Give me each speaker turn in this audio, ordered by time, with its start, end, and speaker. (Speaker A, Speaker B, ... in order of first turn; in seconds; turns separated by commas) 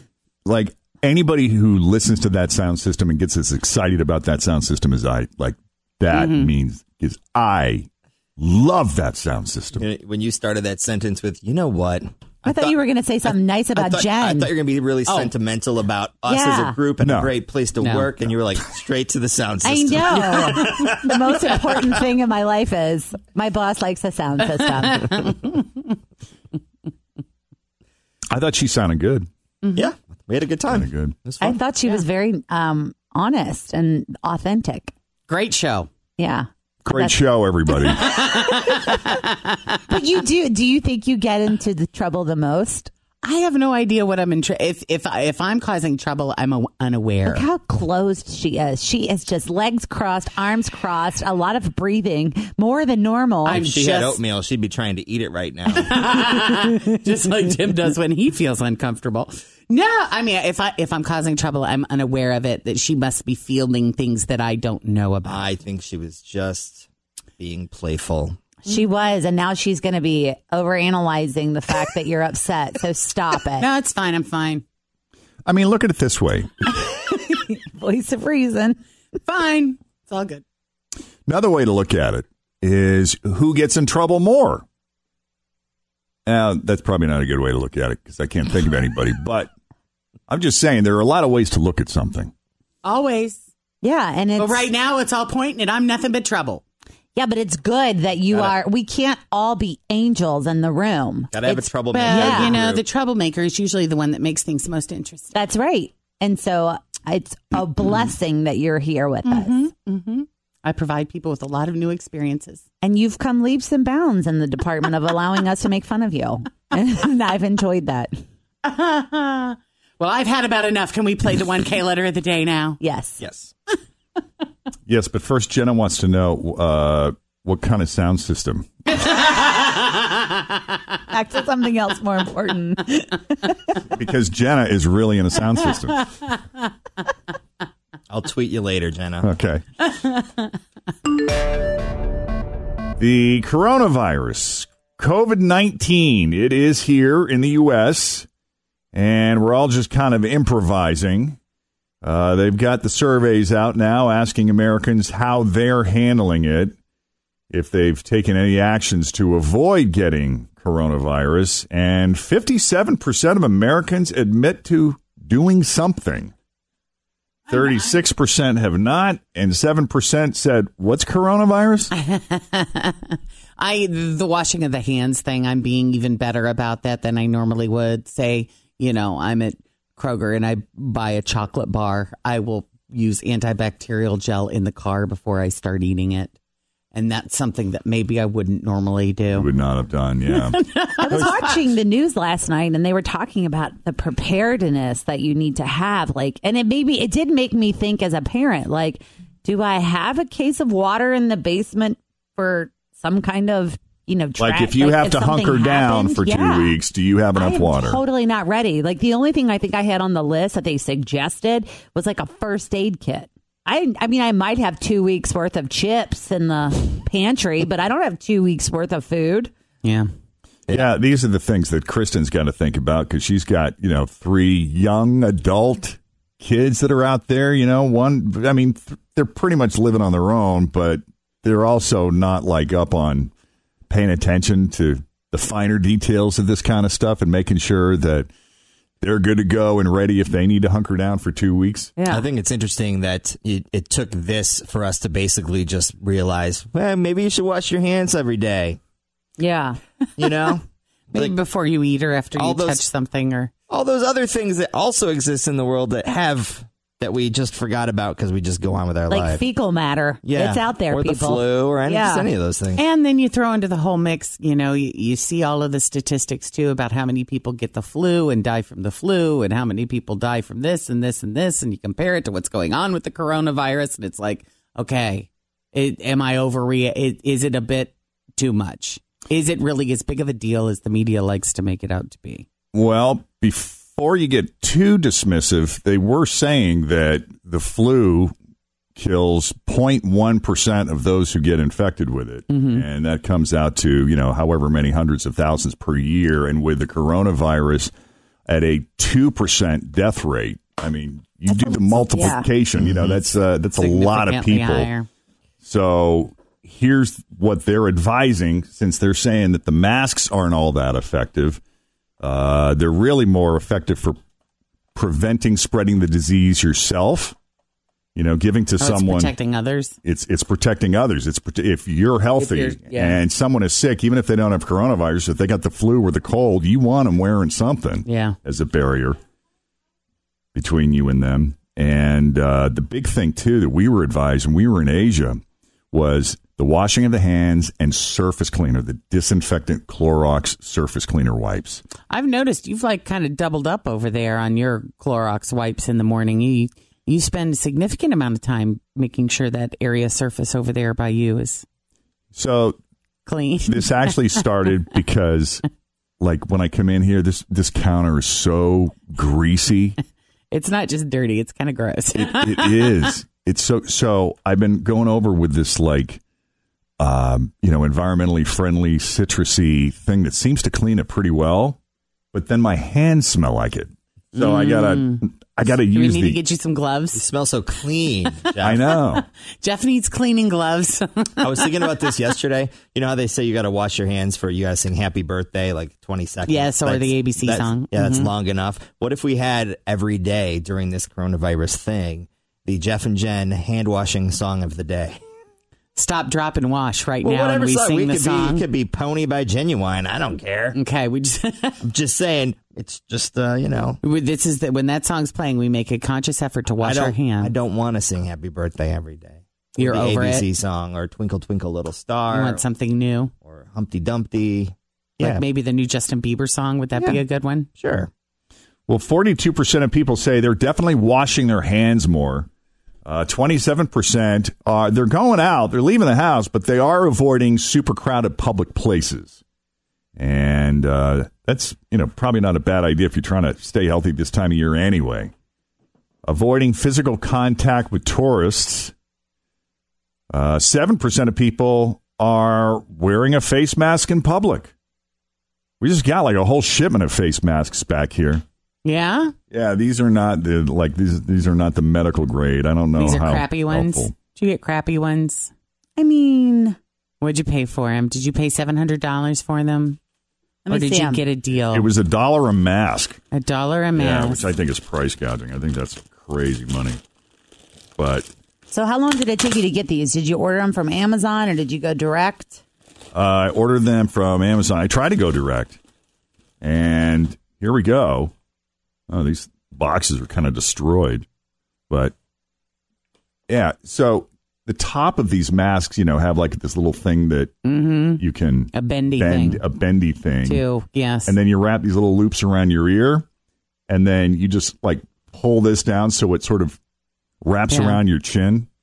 Speaker A: 0.4-9.8, Speaker B: 6.1-6.5, Speaker C: 9.8-12.8, Speaker D: 12.4-14.5, Speaker C: 13.3-21.5, Speaker B: 15.1-15.3, Speaker D: 16.3-16.8, Speaker A: 17.0-17.3, Speaker B: 17.8-18.1, Speaker D: 19.6-25.5, Speaker B: 25.1-25.6, Speaker A: 28.3-29.3, Speaker C: 29.7-31.6, Speaker A: 30.7-31.1, Speaker D: 31.4-34.9, Speaker B: 35.3-35.9, Speaker D: 36.2-37.1, Speaker A: 36.8-38.2, Speaker D: 37.8-39.2, Speaker B: 38.0-39.8, Speaker D: 39.9-42.9, Speaker B: 43.2-47.4, Speaker D: 47.2-53.6, Speaker B: 53.5-54.2, Speaker C: 53.5-56.2, Speaker B: 55.7-65.4, Speaker C: 65.2-66.9, Speaker C: 67.4-68.4, Speaker D: 68.6-73.7, Speaker B: 73.6-74.6, Speaker A: 75.5-76.7, Speaker D: 76.8-78.8, Speaker B: 79.2-80.4, Speaker A: 81.2-84.6, Speaker A: 86.2-89.5, Speaker A: 90.3-92.3, Speaker B: 92.8-93.4, Speaker D: 93.8-94.7, Speaker B: 94.4-96.6, Speaker D: 97.2-102.6, Speaker C: 101.3-102.8, Speaker B: 101.9-105.3, Speaker D: 105.3-109.7, Speaker B: 109.2-112.6, Speaker D: 112.8-118.2, Speaker B: 118.6-122.8, Speaker D: 122.8-123.2, Speaker C: 123.2-123.5, Speaker A: 124.9-128.7, Speaker B: 129.0-130.2, Speaker D: 131.1-133.6, Speaker A: 133.9-136.1, Speaker C: 138.1-139.3, Speaker A: 139.2-139.6, Speaker A: 143.0-148.3, Speaker A: 148.9-151.4, Speaker A: 152.0-156.8, Speaker A: 157.5-166.3, Speaker A: 167.5-171.9, Speaker B: 171.9-186.3, Speaker B: 186.9-189.5, Speaker A: 189.3-190.6, Speaker B: 190.3-191.5, Speaker D: 191.0-206.8, Speaker A: 204.4-208.0, Speaker D: 207.3-219.5, Speaker B: 219.8-220.1, Speaker A: 220.7-233.3, Speaker A: 233.9-238.3, Speaker A: 239.0-241.9, Speaker D: 242.0-242.2, Speaker C: 242.1-248.8, Speaker D: 249.4-249.8, Speaker C: 250.2-251.3, Speaker B: 251.1-253.5, Speaker C: 252.3-252.8, Speaker C: 253.7-259.4, Speaker D: 259.1-262.3, Speaker C: 260.2-262.8, Speaker B: 262.8-282.4, Speaker A: 282.7-288.3, Speaker A: 288.9-297.9, Speaker B: 292.5-292.8, Speaker A: 298.5-304.9, Speaker D: 301.5-302.5, Speaker B: 303.8-305.1, Speaker A: 305.6-311.6, Speaker A: 312.2-314.2, Speaker A: 314.9-317.4, Speaker A: 318.1-319.4, Speaker B: 318.8-320.0, Speaker A: 320.0-329.2, Speaker B: 322.4-323.2, Speaker B: 328.1-328.4, Speaker A: 330.5-341.8, Speaker B: 342.1-351.6, Speaker A: 352.3-352.8, Speaker B: 353.2-354.2, Speaker A: 353.6-355.6, Speaker A: 356.2-360.0, Speaker B: 360.5-362.9, Speaker A: 362.1-366.2, Speaker A: 367.0-371.8, Speaker A: 372.3-376.4, Speaker B: 374.3-375.2, Speaker B: 375.9-377.2, Speaker C: 377.1-378.9, Speaker A: 378.6-379.2, Speaker B: 379.1-381.7, Speaker C: 381.4-395.2, Speaker B: 386.4-388.3, Speaker B: 395.9-398.6, Speaker C: 397.2-400.8, Speaker B: 400.7-401.8, Speaker C: 401.8-404.0, Speaker B: 404.0-407.5, Speaker C: 406.8-412.6, Speaker B: 409.8-410.4, Speaker B: 412.3-413.3, Speaker C: 413.4-415.4, Speaker B: 415.2-417.7, Speaker C: 417.8-418.1, Speaker A: 418.9-422.5, Speaker A: 423.0-429.4, Speaker A: 430.1-435.3, Speaker A: 436.2-438.9, Speaker A: 440.3-444.7, Speaker A: 445.8-448.4, Speaker B: 448.8-449.3, Speaker A: 449.5-454.1, Speaker B: 452.9-455.5, Speaker D: 456.0-456.8, Speaker B: 457.2-460.0, Speaker D: 460.6-461.2, Speaker B: 460.7-461.9, Speaker A: 461.7-463.2, Speaker B: 463.3-464.5, Speaker A: 463.9-467.0, Speaker A: 468.0-468.3, Speaker D: 468.7-472.6, Speaker A: 473.1-475.8, Speaker A: 476.6-478.3, Speaker A: 479.1-481.2, Speaker A: 483.5-487.6, Speaker B: 487.6-489.6, Speaker A: 488.2-490.6, Speaker B: 490.4-491.4, Speaker A: 491.3-493.2, Speaker A: 493.9-496.8, Speaker A: 497.4-498.7, Speaker B: 497.7-498.0